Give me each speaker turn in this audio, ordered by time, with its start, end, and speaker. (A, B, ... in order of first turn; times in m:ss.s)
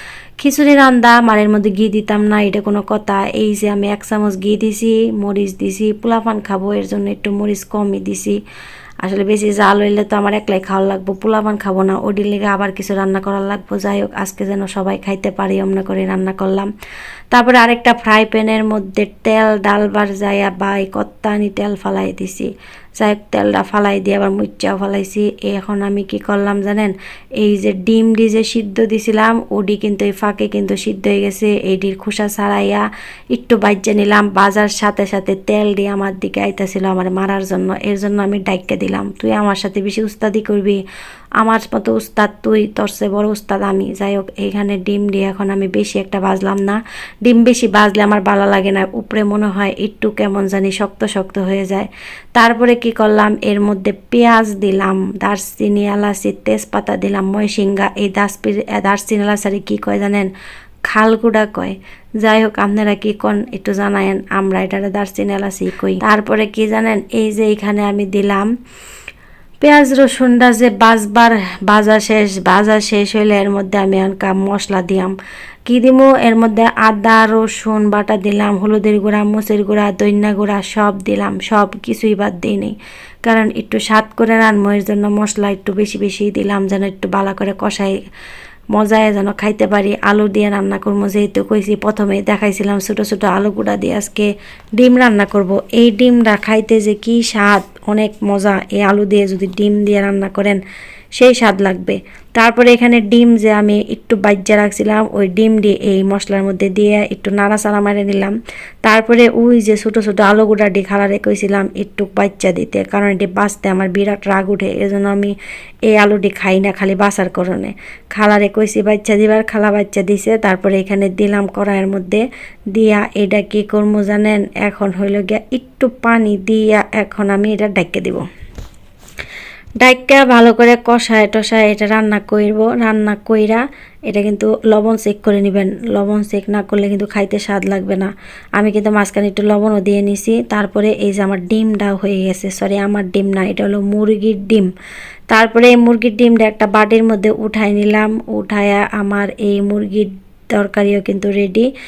0:00.4-0:08.4 A
0:09.0-0:16.7 A
0:17.3-0:40.8 A
0:41.4-1:00.3 A
1:00.9-1:08.5 A
1:09.6-1:15.1 A
1:15.7-1:27.9 A
1:28.7-1:40.6 A
1:41.2-1:48.3 A
1:48.8-1:55.3 A
1:55.9-2:08.2 A
2:09.8-2:24.7 A
2:25.3-2:31.7 A